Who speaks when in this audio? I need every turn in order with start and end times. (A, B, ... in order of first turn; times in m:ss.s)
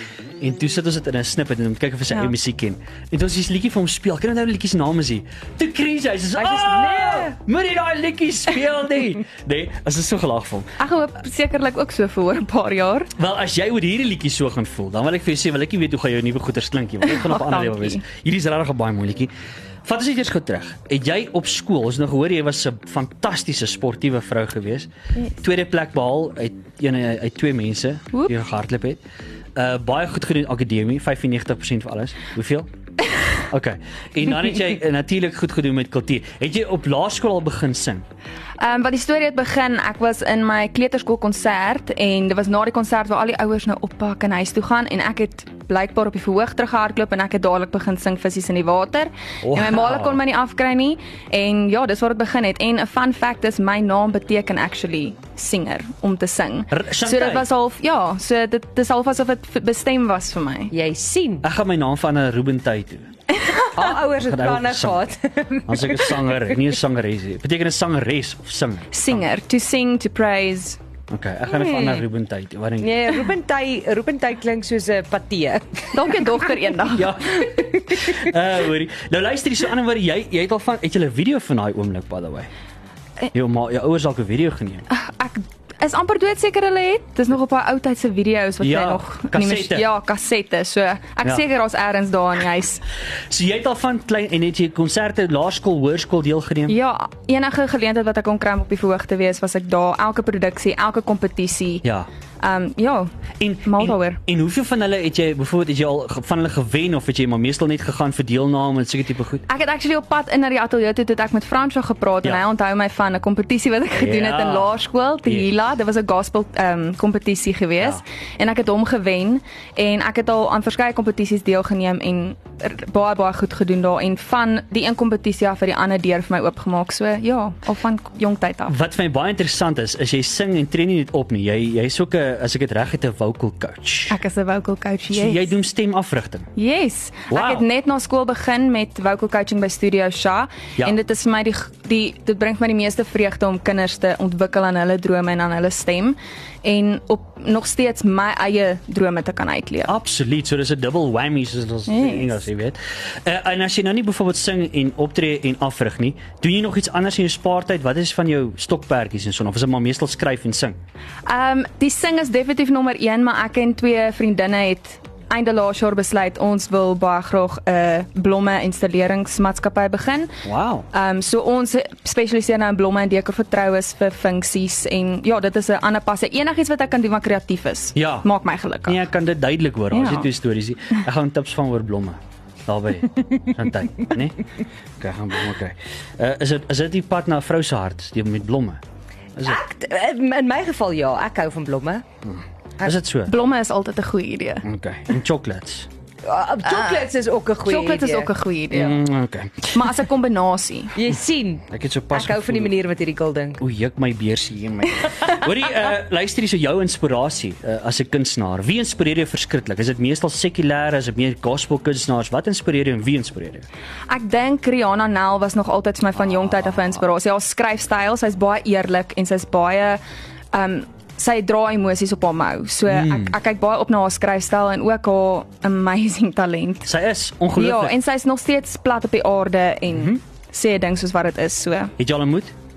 0:00.4-0:10.7 A
0:06.4-0:07.3 B
0:10.8-0:13.1 C
0:13.2-0:19.3 A
0:17.0-0:18.0 C
0:19.8-0:29.0 A
0:29.6-0:32.7 A
0:33.5-0:38.0 A
0:38.6-1:00.7 C
0:49.4-0:50.2 A
0:56.7-0:57.5 A
1:00.7-1:01.4 B
1:01.4-1:03.1 A
1:03.4-1:03.7 C
1:03.7-1:06.2 B
1:04.2-1:05.1 A
1:05.7-1:09.2 A
1:08.9-1:10.8 C
1:11.1-1:13.2 A
1:11.5-1:12.1 B
1:12.8-1:16.0 B
1:15.9-1:17.1 C
1:16.9-1:22.5 A
1:23.3-1:24.8 A
1:24.9-1:32.8 C
1:28.6-1:29.9 A
1:33.3-1:36.8 A
1:36.7-1:41.8 C
1:41.8-1:42.1 A
1:42.4-1:43.1 C
1:43.4-1:49.4 A
1:43.6-1:44.2 C
1:49.5-2:08.8 C
1:53.9-1:55.5 A
2:08.7-2:14.2 A
2:14.1-2:15.6 C
2:15.1-2:16.5 A
2:16.6-2:29.9 C
2:17.3-2:17.6 A
2:29.9-2:40.8 A
2:31.9-2:32.4 C
2:41.3-2:50.4 C
2:50.4-2:50.9 A
2:50.9-2:59.1 C
2:58.0-2:58.3 A
2:58.8-3:04.4 A
2:59.9-3:00.3 C
3:05.0-3:08.8 A
3:09.4-3:12.0 B
3:12.2-3:13.4 A
3:13.3-3:14.7 C
3:14.6-3:15.9 A
3:16.2-3:18.3 B
3:16.6-3:17.1 C
3:17.7-3:19.1 C
3:18.7-3:20.0 A
3:19.7-3:21.0 C
3:21.0-3:23.6 B
3:21.7-3:22.8 A
3:23.6-3:33.7 A
3:34.1-3:40.0 C
3:40.5-3:46.9 C
3:42.9-3:43.4 A
3:46.9-3:47.9 A
3:47.6-3:51.9 C
3:49.9-3:50.2 A
3:52.0-3:52.5 A